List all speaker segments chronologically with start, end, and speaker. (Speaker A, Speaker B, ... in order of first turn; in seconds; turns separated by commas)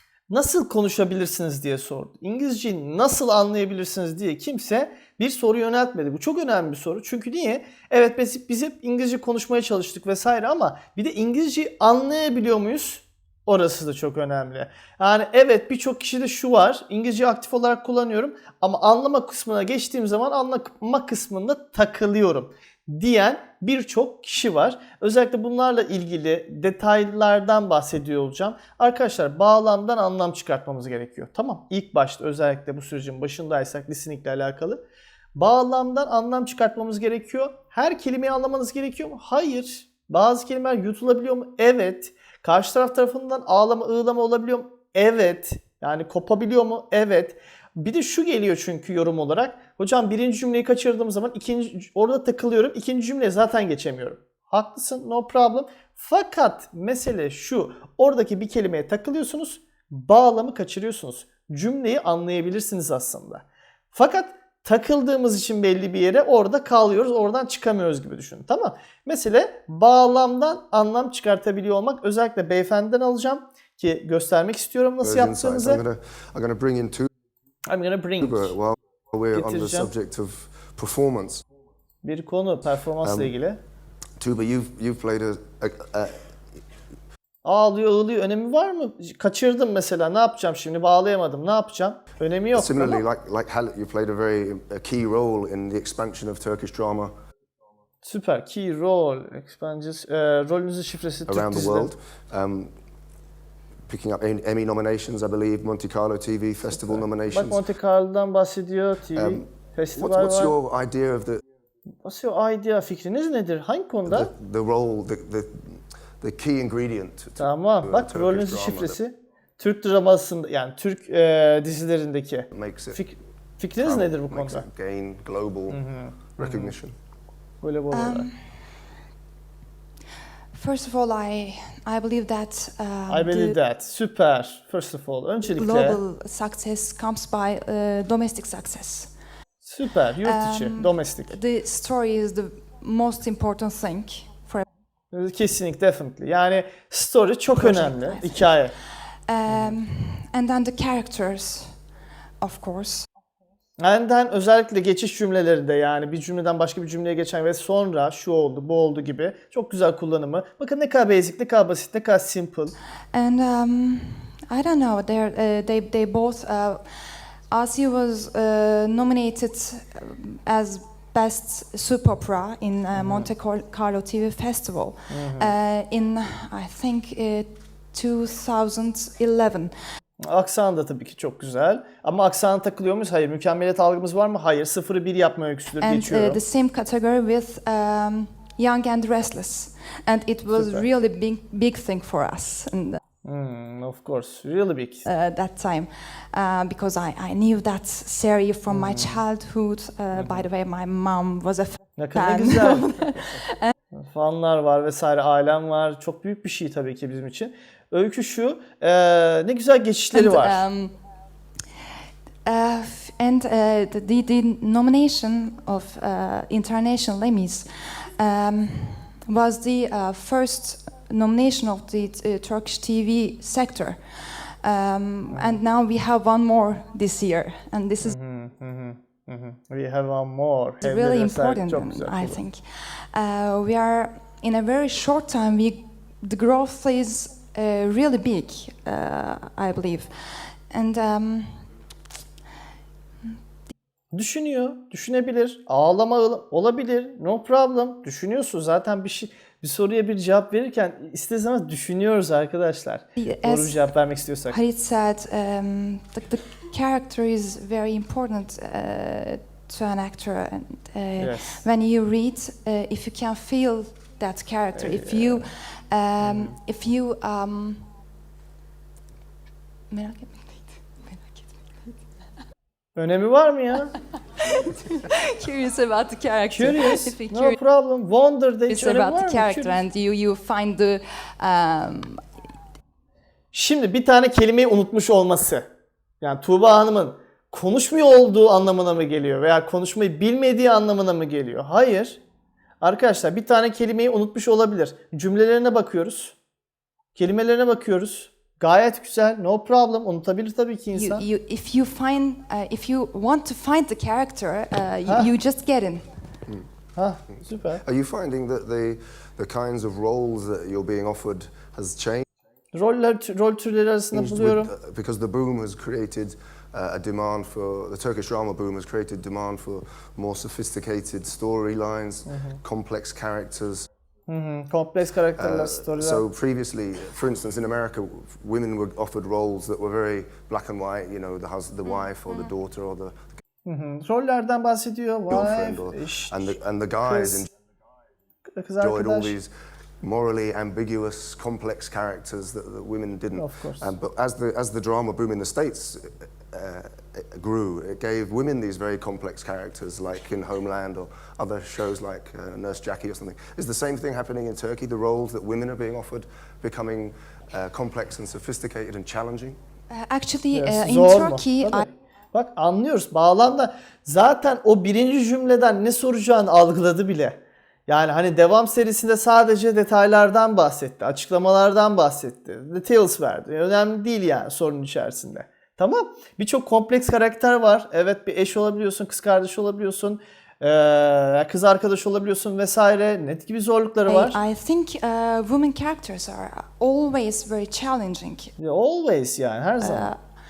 Speaker A: 0.3-34.8, Speaker A: 35.3-75.8, Speaker B: 75.0-77.1, Speaker A: 77.7-78.5, Speaker B: 78.2-81.4, Speaker A: 79.3-79.9, Speaker A: 82.0-83.6, Speaker B: 83.0-83.3, Speaker B: 84.2-86.2, Speaker A: 87.4-93.0, Speaker B: 92.5-97.1, Speaker A: 98.0-101.9, Speaker B: 101.3-102.7, Speaker B: 103.9-107.6, Speaker A: 106.7-110.5, Speaker B: 109.1-111.4, Speaker A: 112.0-114.3, Speaker B: 114.1-119.0, Speaker A: 117.4-124.7, Speaker B: 122.5-123.0, Speaker B: 123.8-125.8, Speaker A: 125.7-126.7, Speaker B: 126.3-126.9, Speaker A: 127.6-128.3, Speaker C: 127.9-128.3, Speaker C: 130.5-133.6, Speaker A: 133.1-136.0, Speaker C: 135.6-139.1, Speaker A: 139.6-141.4, Speaker C: 140.2-144.7, Speaker A: 145.1-148.7, Speaker C: 147.5-151.8, Speaker A: 149.4-149.8, Speaker C: 152.4-153.1, Speaker A: 153.8-162.8, Speaker C: 163.1-179.7, Speaker A: 172.9-173.3, Speaker A: 175.1-175.5, Speaker A: 180.2-186.4, Speaker C: 185.8-193.0, Speaker A: 190.5-190.9, Speaker A: 193.2-195.0, Speaker C: 195.0-203.7, Speaker A: 198.7-199.2, Speaker A: 200.1-200.4, Speaker A: 202.0-203.3, Speaker A: 203.9-210.6, Speaker C: 210.1-210.9, Speaker C: 212.4-228.2, Speaker A: 225.3-225.6, Speaker A: 228.0-232.4, Speaker C: 230.8-241.6, Speaker A: 244.1-254.6, Speaker C: 253.2-267.9, Speaker A: 261.2-261.7, Speaker A: 264.8-265.5, Speaker A: 266.2-266.6, Speaker C: 269.9-272.0, Speaker A: 273.0-273.9, Speaker C: 274.4-277.6, Speaker A: 276.5-279.8, Speaker C: 278.7-282.2, Speaker A: 283.5-285.7, Speaker A: 286.2-292.2, Speaker A: 292.8-296.4, Speaker A: 297.1-301.3, Speaker C: 300.9-306.1, Speaker A: 305.1-305.3, Speaker A: 307.0-307.8, Speaker B: 307.8-312.2, Speaker A: 312.7-314.7, Speaker B: 314.1-323.9, Speaker A: 322.3-322.6, Speaker A: 324.3-326.2, Speaker B: 325.4-333.1, Speaker C: 331.9-332.4, Speaker A: 333.7-337.4, Speaker B: 335.3-337.5, Speaker A: 338.6-339.4, Speaker B: 338.8-359.6, Speaker A: 343.3-343.9, Speaker C: 359.9-361.9, Speaker A: 360.5-384.4, Speaker C: 384.1-388.5, Speaker A: 388.6-390.1, Speaker C: 389.8-390.2